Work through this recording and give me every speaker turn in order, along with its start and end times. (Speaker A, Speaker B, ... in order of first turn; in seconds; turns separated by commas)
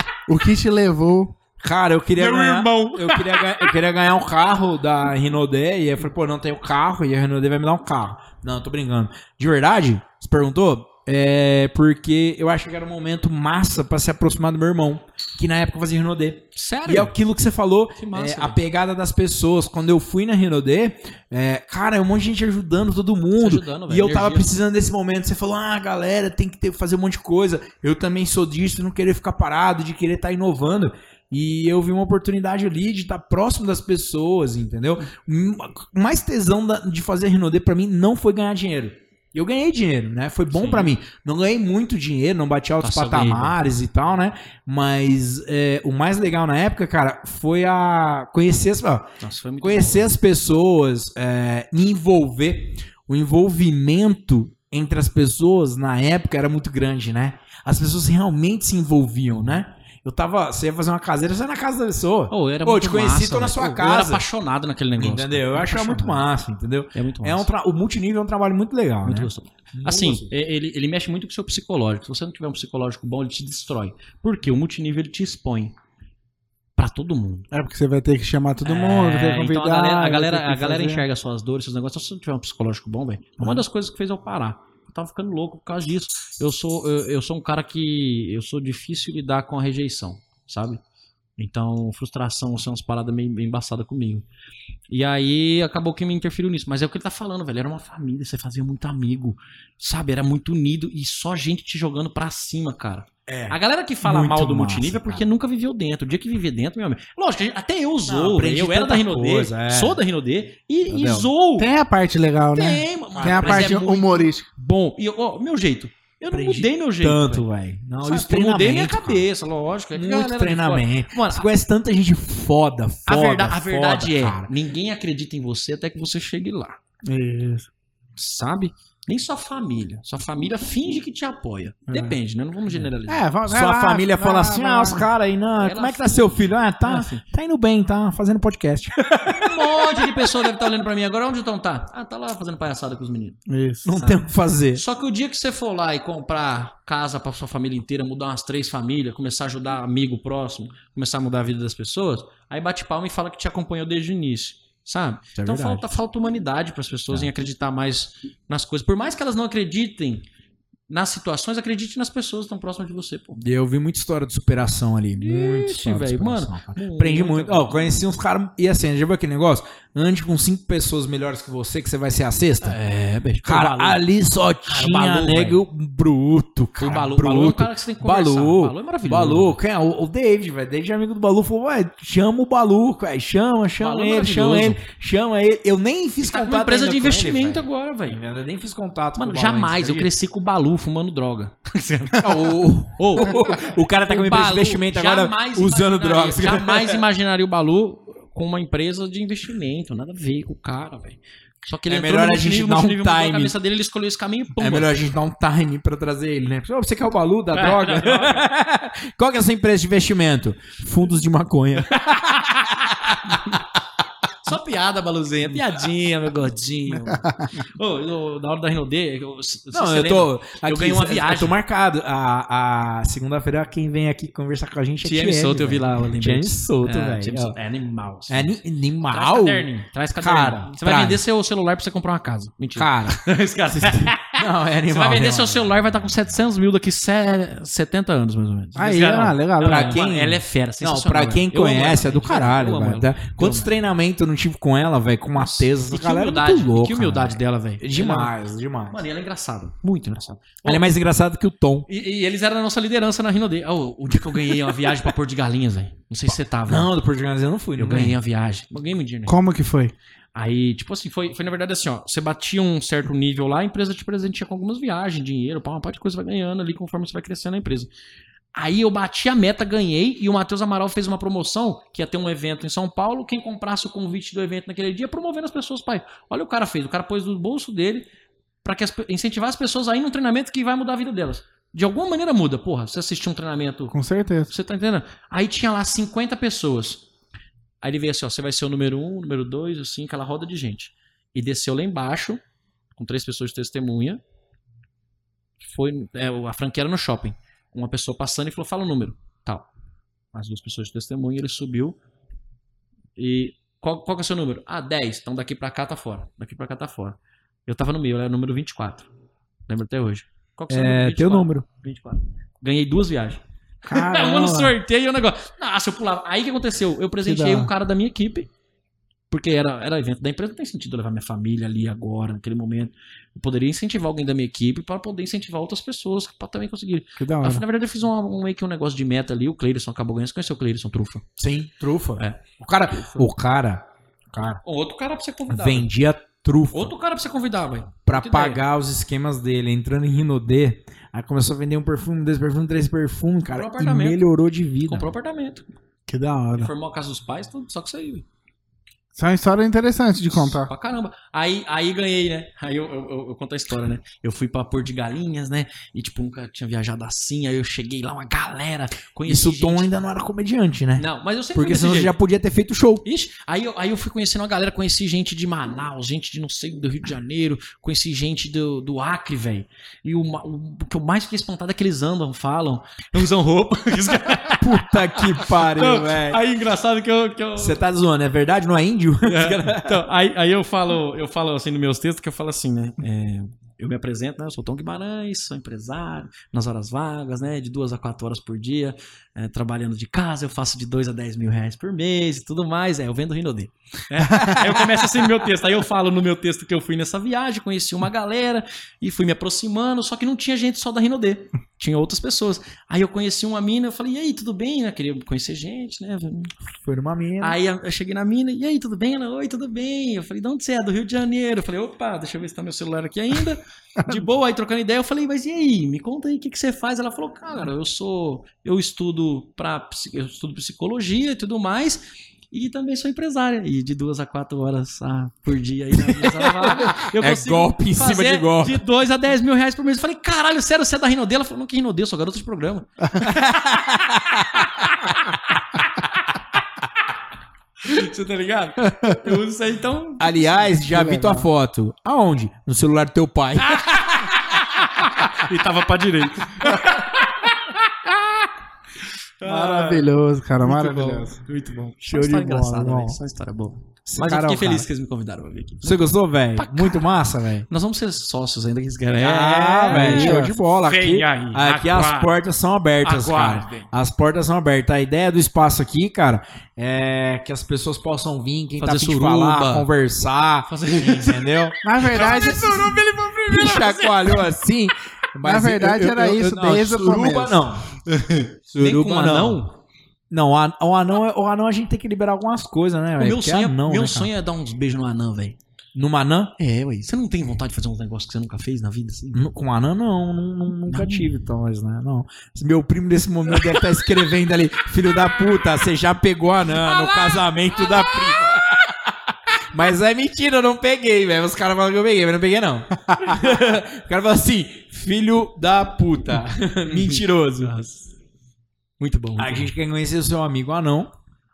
Speaker A: 0.3-1.4, Speaker B: 1.6-49.1, Speaker C: 2.2-3.8, Speaker C: 16.5-17.1, Speaker C: 18.0-18.6, Speaker C: 23.4-24.5, Speaker C: 40.5-40.9, Speaker C: 42.8-43.5, Speaker C: 49.2-50.1, Speaker B: 49.6-64.2, Speaker C: 62.3-66.2, Speaker B: 65.0-70.3, Speaker C: 66.9-67.5, Speaker C: 69.0-75.7, Speaker C: 76.8-77.5, Speaker A: 77.5-81.0, Speaker C: 78.6-90.8, Speaker C: 91.4-94.2, Speaker C: 94.9-111.7, Speaker B: 103.3-105.3, Speaker B: 108.0-110.0, Speaker B: 110.9-111.3, Speaker A: 111.6-114.4, Speaker C: 112.5-117.4, Speaker B: 113.1-113.8, Speaker B: 116.3-119.2, Speaker C: 118.0-121.5, Speaker B: 119.9-124.5, Speaker C: 123.1-126.8, Speaker A: 127.1-127.7, Speaker C: 128.2-133.3, Speaker A: 131.9-132.1, Speaker A: 133.1-135.1, Speaker B: 133.4-140.5, Speaker C: 135.6-137.2, Speaker C: 139.3-143.4, Speaker A: 143.5-143.9, Speaker B: 143.8-144.8, Speaker C: 143.9-160.2, Speaker B: 155.3-155.9, Speaker C: 160.9-163.4, Speaker B: 163.4-172.8, Speaker C: 165.2-167.8, Speaker C: 172.6-174.0, Speaker B: 173.4-190.1, Speaker C: 174.7-175.6, Speaker C: 176.8-179.5, Speaker C: 183.8-184.8, Speaker C: 186.3-188.2, Speaker C: 189.2-204.9, Speaker B: 192.2-197.0, Speaker B: 201.9-203.5, Speaker B: 204.6-213.3, Speaker C: 207.5-208.5, Speaker C: 211.9-213.4, Speaker C: 214.4-221.5, Speaker A: 217.1-217.4, Speaker B: 219.7-227.6, Speaker C: 225.0-228.5, Speaker B: 228.3-231.2, Speaker C: 229.0-243.7, Speaker B: 232.8-233.2, Speaker B: 233.7-235.8, Speaker A: 238.8-240.0, Speaker B: 239.6-249.0, Speaker C: 245.3-248.3, Speaker C: 248.9-250.9, Speaker B: 250.6-251.9, Speaker C: 251.9-256.9, Speaker B: 256.3-258.2, Speaker C: 257.8-259.4, Speaker A: 259.3-259.9, Speaker C: 260.3-267.9, Speaker C: 268.5-278.1, Speaker C: 278.6-283.9, Speaker A: 283.9-284.5, Speaker C: 284.5-287.0, Speaker C: 287.8-292.4, Speaker C: 293.0-294.2, Speaker C: 295.6-299.7, Speaker C: 300.3-302.0, Speaker C: 303.2-309.1, Speaker C: 309.7-318.5, Speaker B: 310.7-311.7, Speaker B: 313.9-314.8, Speaker A: 317.2-317.7, Speaker C: 319.3-331.2, Speaker A: 327.2-327.6, Speaker B: 331.4-334.6, Speaker C: 332.9-333.3, Speaker C: 334.6-335.9, Speaker B: 335.5-336.9, Speaker C: 336.7-338.6, Speaker B: 338.1-345.1, Speaker C: 343.5-344.2, Speaker C: 344.9-345.6, Speaker A: 346.1-346.7, Speaker C: 346.6-348.2, Speaker A: 349.1-350.7, Speaker C: 350.3-359.9, Speaker B: 359.2-363.0, Speaker C: 361.0-362.1, Speaker C: 363.0-377.8, Speaker B: 374.5-376.4, Speaker B: 377.6-380.1, Speaker C: 379.2-406.5, Speaker A: 394.3-394.6, Speaker B: 406.7-407.6, Speaker C: 407.4-433.4, Speaker B: 425.9-428.8, Speaker B: 433.2-434.8, Speaker C: 434.6-435.2, Speaker C: 437.8-440.8, Speaker A: 438.9-439.2, Speaker B: 440.2-444.3, Speaker A: 440.9-441.5, Speaker C: 443.6-448.5, Speaker C: 449.4-450.1, Speaker A: 449.4-451.4, Speaker C: 450.6-457.1, Speaker B: 452.0-453.2, Speaker B: 454.1-454.9, Speaker B: 455.8-457.7, Speaker C: 457.7-462.3, Speaker B: 459.2-472.9, Speaker A: 459.9-460.5, Speaker C: 463.0-463.9, Speaker C: 468.8-469.9, Speaker C: 470.7-474.5, Speaker A: 471.8-472.9, Speaker B: 473.4-477.9, Speaker A: 475.4-477.6, Speaker C: 478.1-479.7, Speaker B: 478.7-479.6, Speaker B: 480.3-484.3, Speaker C: 483.2-485.6, Speaker B: 485.9-486.5, Speaker C: 486.6-489.4, Speaker B: 489.3-499.1, Speaker C: 490.9-491.3, Speaker C: 493.6-493.8, Speaker C: 496.7-498.8, Speaker B: 499.7-507.7, Speaker C: 506.9-508.1, Speaker C: 509.0-509.7, Speaker B: 509.4-511.1